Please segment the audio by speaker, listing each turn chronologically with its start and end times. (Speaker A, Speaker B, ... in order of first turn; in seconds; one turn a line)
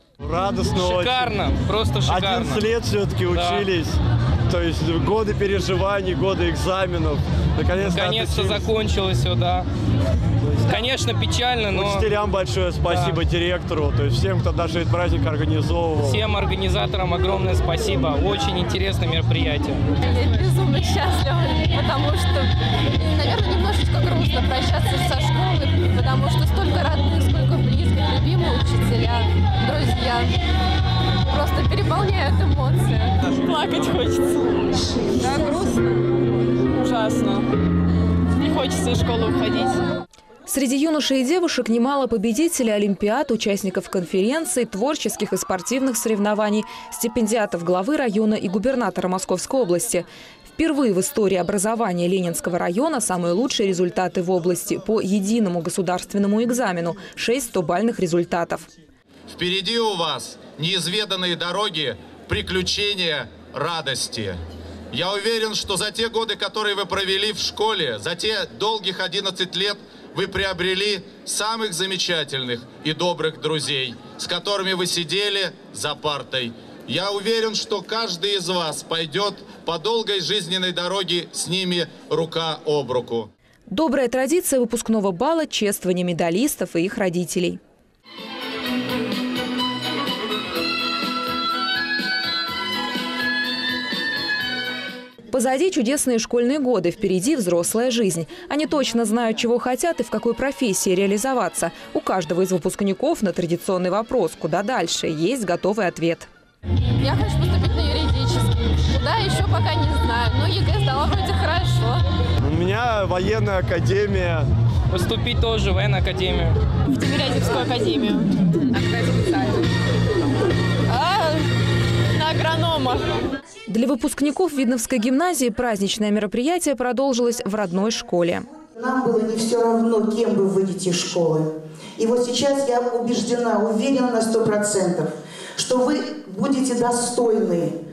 Speaker A: 0.2-1.4
Speaker B: 0.7-2.7
Speaker A: 2.0-4.0
Speaker B: 3.3-3.7
Speaker A: 4.5-8.7
Speaker B: 7.8-9.7
Speaker B: 10.6-12.1
Speaker A: 11.7-16.2
Speaker B: 12.9-13.2
Speaker B: 16.0-19.8
Speaker C: 20.0-30.4
Speaker C: 31.3-33.3
Speaker D: 33.4-34.4
Speaker C: 35.2-36.1
Speaker D: 36.7-37.5
Speaker D: 38.4-39.8
Speaker E: 40.5-58.7
Speaker F: 59.3-64.4
Speaker F: 64.9-83.3
Speaker E: 83.7-87.6
Speaker E: 95.3-106.3
Speaker C: 107.0-112.0
Speaker A: 112.4-114.5
Speaker B: 114.9-116.6
Speaker D: 116.9-118.3
Speaker C: 118.9-119.5
Speaker D: 122.2-122.9
Speaker E: 123.7-128.4
Speaker G: 128.7-137.7